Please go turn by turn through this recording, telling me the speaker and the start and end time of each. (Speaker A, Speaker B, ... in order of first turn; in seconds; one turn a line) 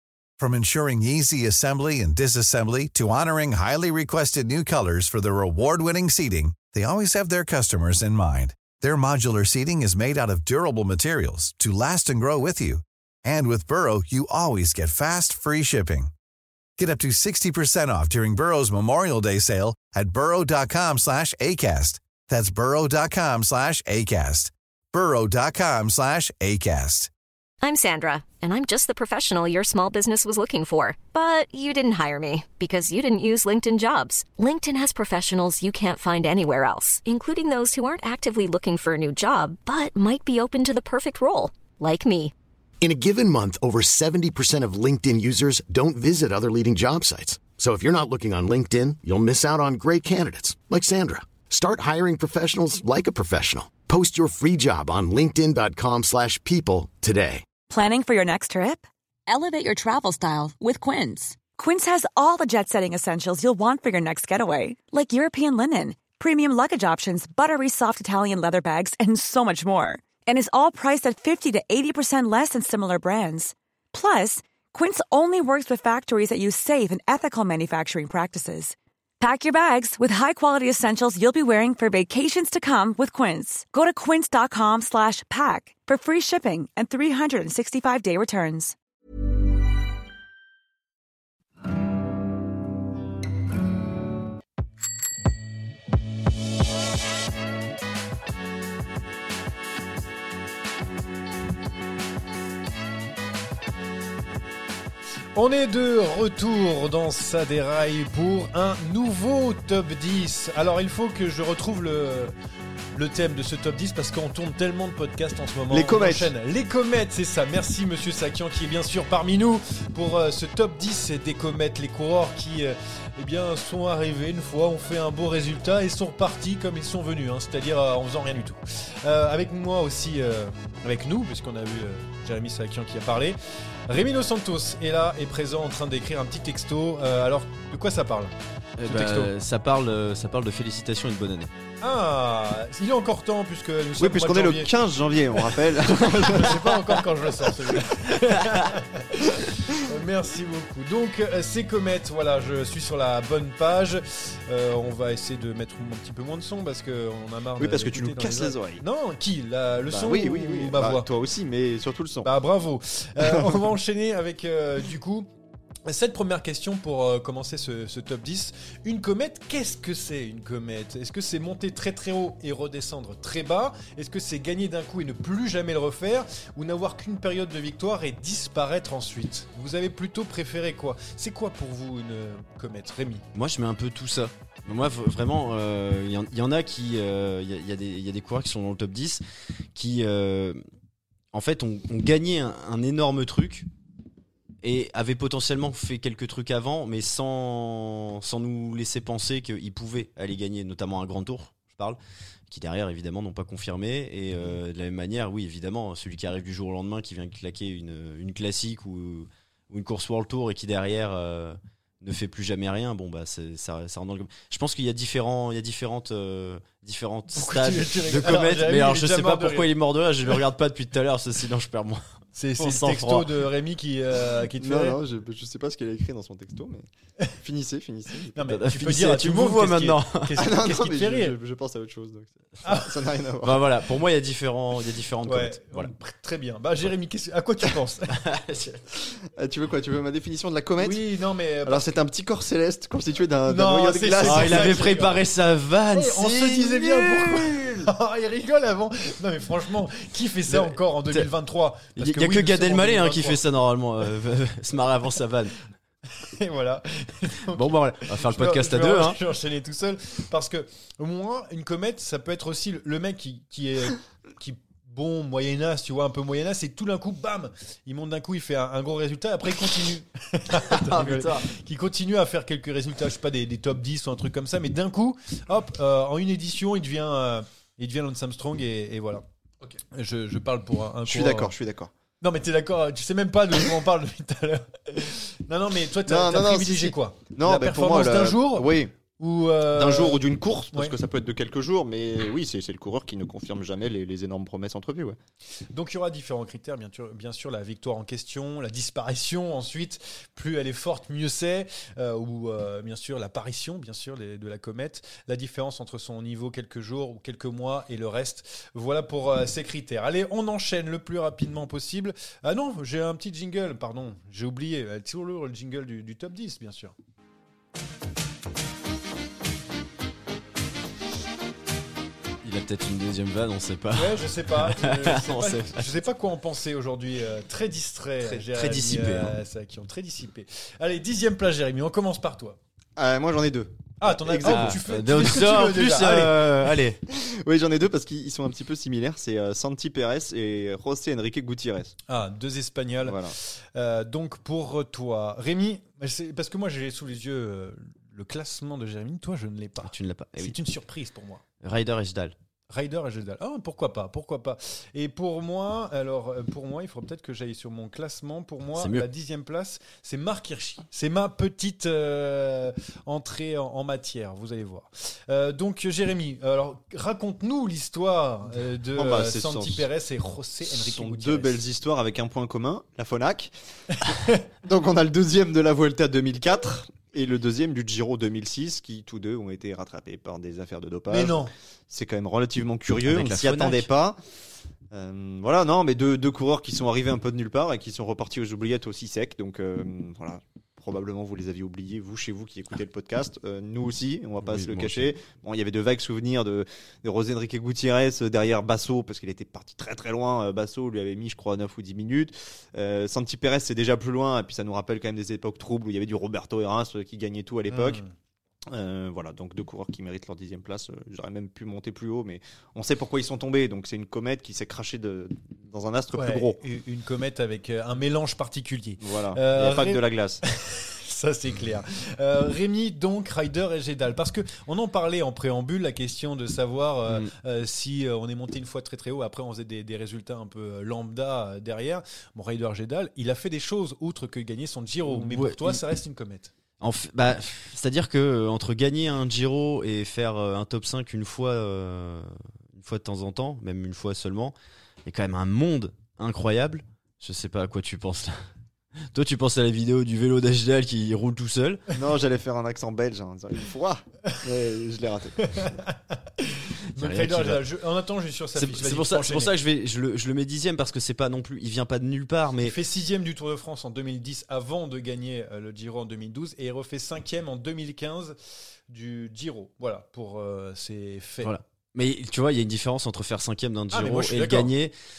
Speaker A: 0.4-16.1
Speaker A: 16.8-27.1
Speaker B: 27.6-42.3
Speaker C: 42.8-57.4
Speaker D: 57.7-88.7
Speaker E: 105.3-112.3
Speaker E: 112.9-139.3
Speaker F: 115.7-116.3
Speaker G: 138.8-141.5
Speaker E: 141.8-144.7
Speaker F: 144.0-146.7
Speaker E: 145.8-161.1
Speaker F: 157.6-158.8
Speaker F: 159.9-162.3
Speaker E: 162.2-165.3
Speaker F: 163.2-163.6
Speaker E: 165.8-183.2
Speaker G: 183.3-189.2
Speaker G: 189.7-190.6
Speaker G: 191.3-193.7
Speaker G: 194.6-222.0
Speaker E: 217.3-219.7
Speaker E: 222.3-225.0
Speaker G: 222.6-223.3
Speaker F: 224.6-226.8
Speaker F: 227.4-228.4
Speaker E: 228.3-231.3
Speaker G: 228.4-230.4
Speaker F: 230.4-233.7
Speaker E: 232.6-232.9
Speaker G: 233.4-235.9
Speaker E: 235.2-238.2
Speaker G: 238.1-238.8
Speaker F: 239.3-241.1
Speaker E: 240.8-241.8
Speaker F: 241.7-244.9
Speaker E: 243.5-245.2
Speaker G: 244.2-247.8
Speaker E: 245.9-253.4
Speaker G: 250.5-251.3
Speaker G: 252.0-255.5
Speaker E: 256.2-281.5
Speaker G: 257.5-259.2
Speaker G: 270.6-271.5
Speaker F: 281.1-281.9
Speaker E: 282.2-290.2
Speaker F: 286.1-288.9
Speaker F: 289.7-295.2
Speaker E: 295.7-316.9
Speaker G: 322.4-325.9
Speaker E: 323.9-332.6
Speaker G: 328.2-329.4
Speaker F: 333.0-334.8
Speaker E: 334.0-336.5
Speaker G: 334.4-337.0
Speaker F: 337.1-341.9
Speaker E: 342.1-351.4
Speaker F: 343.0-343.3
Speaker G: 349.8-350.6
Speaker G: 351.6-352.3
Speaker E: 352.7-371.6
Speaker G: 358.8-359.1
Speaker F: 368.9-369.9
Speaker F: 370.7-373.5
Speaker E: 373.9-374.4
Speaker F: 374.1-384.2
Speaker E: 381.1-381.5
Speaker G: 383.0-383.9
Speaker F: 384.9-408.0
Speaker G: 394.4-395.1
Speaker E: 407.7-408.1
Speaker F: 408.7-416.6
Speaker E: 416.1-436.5
Speaker F: 419.0-420.4
Speaker G: 435.1-435.8
Speaker G: 436.8-448.3
Speaker G: 449.0-451.8
Speaker F: 451.9-455.8
Speaker E: 455.6-459.5
Speaker G: 456.9-457.6
Speaker G: 458.6-462.7
Speaker E: 462.6-468.4
Speaker E: 468.9-471.5
Speaker G: 471.4-474.9
Speaker E: 473.9-474.7